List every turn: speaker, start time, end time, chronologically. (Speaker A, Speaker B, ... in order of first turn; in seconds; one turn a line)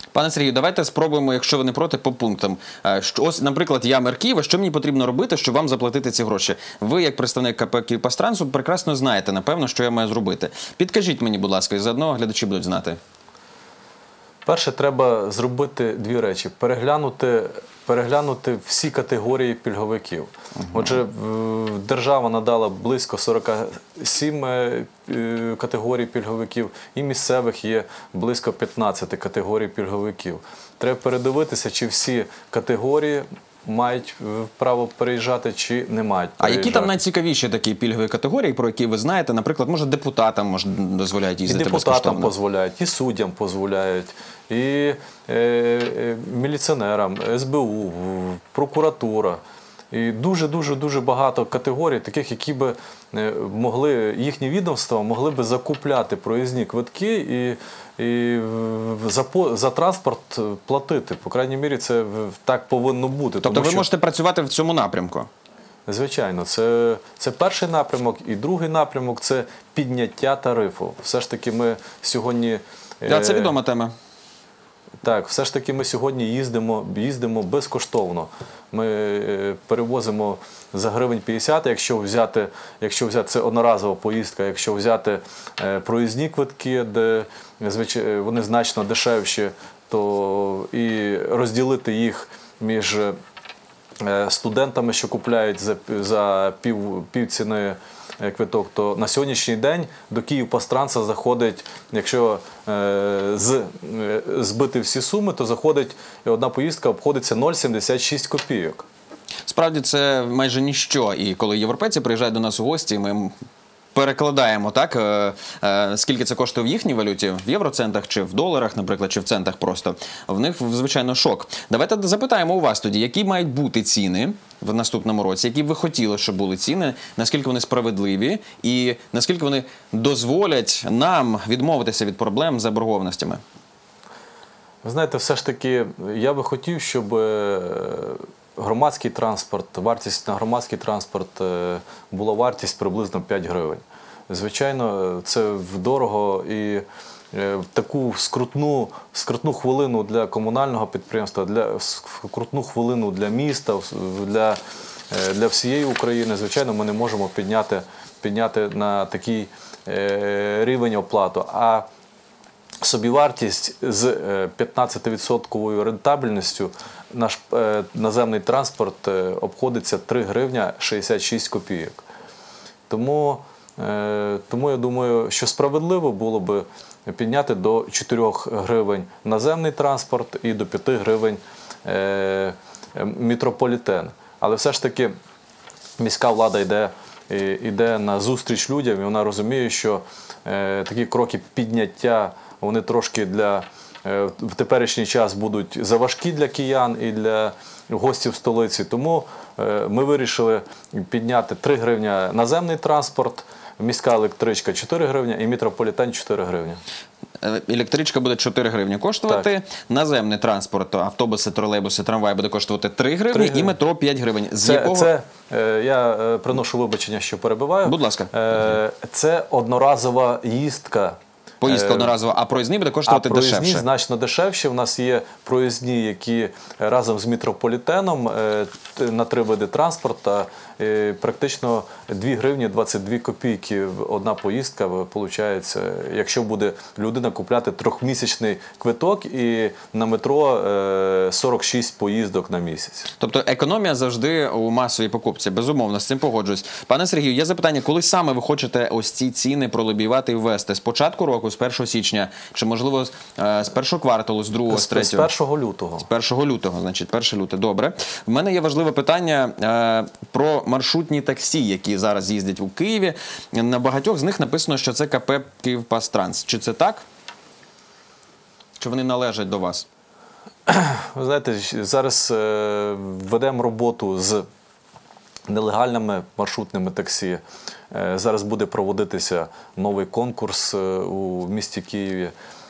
Speaker A: 0.1-13.0
Speaker B: 14.4-36.9
Speaker A: 36.4-42.3
Speaker B: 41.5-63.9
Speaker A: 63.4-65.3
Speaker B: 65.9-73.5
Speaker A: 73.0-73.9
Speaker B: 75.0-93.1
Speaker B: 94.0-108.8
Speaker A: 109.5-113.3
Speaker A: 113.9-133.4
Speaker B: 134.8-154.6
Speaker B: 155.1-161.9
Speaker B: 162.8-172.0
Speaker B: 172.9-185.1
Speaker B: 186.0-206.8
Speaker A: 207.4-215.1
Speaker B: 213.3-213.8
Speaker B: 214.6-222.2
Speaker A: 217.8-218.8
Speaker A: 221.6-223.8
Speaker B: 223.1-243.1
Speaker A: 243.2-255.3
Speaker B: 254.7-256.1
Speaker A: 256.0-267.0
Speaker A: 268.8-269.9
Speaker B: 270.7-274.4
Speaker B: 275.5-282.3